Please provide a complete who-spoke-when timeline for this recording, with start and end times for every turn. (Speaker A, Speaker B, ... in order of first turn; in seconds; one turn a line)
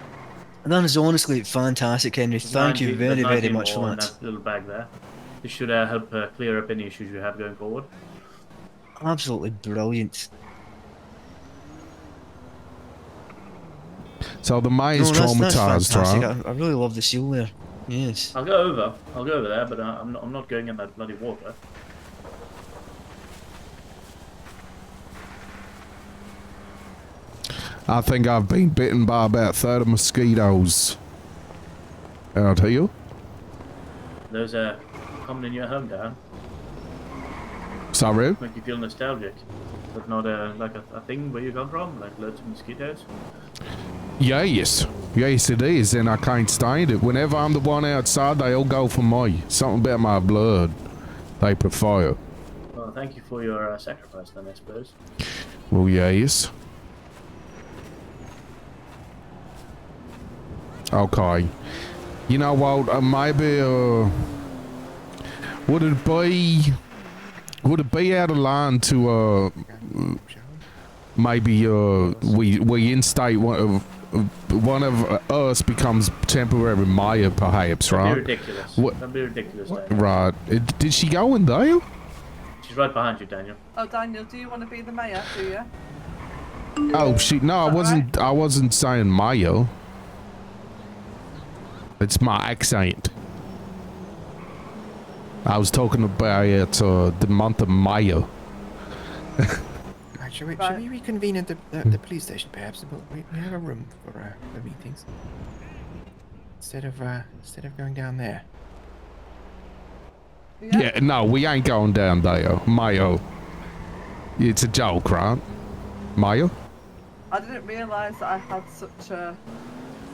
Speaker A: 0.7-4.1
Speaker B: 2.4-7.9
Speaker A: 9.0-10.3
Speaker C: 14.4-16.3
Speaker A: 14.9-18.3
Speaker B: 18.3-21.6
Speaker C: 27.9-31.0
Speaker C: 32.3-32.9
Speaker B: 34.3-36.2
Speaker C: 37.9-38.4
Speaker B: 38.4-43.1
Speaker C: 44.2-50.8
Speaker C: 51.4-52.2
Speaker B: 52.7-54.9
Speaker C: 55.7-56.5
Speaker C: 60.9-61.5
Speaker C: 62.3-64.2
Speaker C: 65.7-66.8
Speaker C: 67.6-70.2
Speaker D: 69.7-70.6
Speaker C: 71.2-79.0
Speaker B: 72.0-72.4
Speaker B: 77.8-80.2
Speaker C: 79.9-81.9
Speaker B: 82.6-83.6
Speaker E: 83.8-85.7
Speaker C: 86.9-89.7
Speaker E: 86.9-88.1
Speaker C: 92.0-93.1
Speaker C: 95.4-98.3
Speaker D: 100.2-105.1
Speaker E: 100.6-100.8
Speaker D: 106.6-108.5
Speaker E: 110.6-110.9
Speaker C: 110.7-113.2
Speaker C: 114.4-115.4
Speaker C: 116.2-116.5
Speaker E: 117.3-119.4